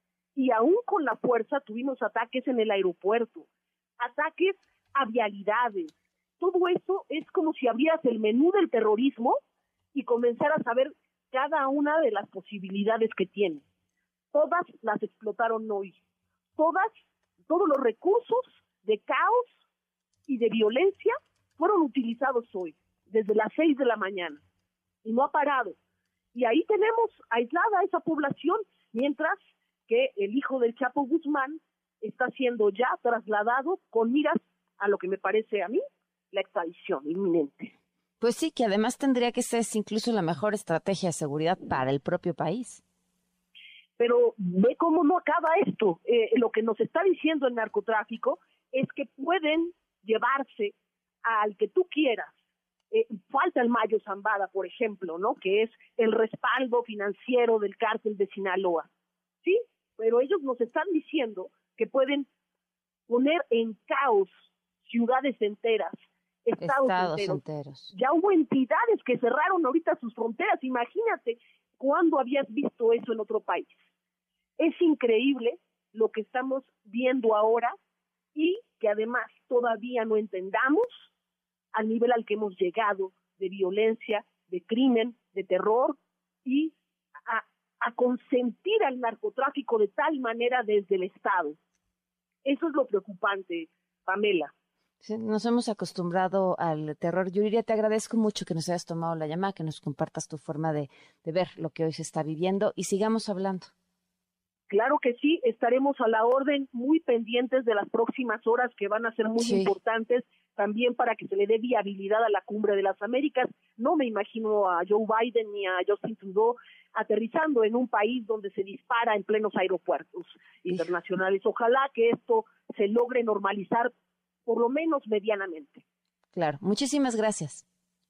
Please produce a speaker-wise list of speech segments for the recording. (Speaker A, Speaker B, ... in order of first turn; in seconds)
Speaker A: 0.3-3.5, 4.0-9.4, 9.9-13.6, 14.3-16.0, 16.6-19.6, 20.3-24.4, 25.0-25.8, 26.3-37.7, 44.0-52.3, 52.9-58.9, 59.4-62.3, 63.1-67.4, 67.9-73.8, 74.6-77.7, 78.3-81.1, 81.7-86.7, 87.2-91.6, 92.4-94.5, 104.7-123.9, 124.5-125.8
Speaker B: 38.2-42.8, 66.6-67.9, 95.0-103.7, 109.4-109.8, 126.3-127.6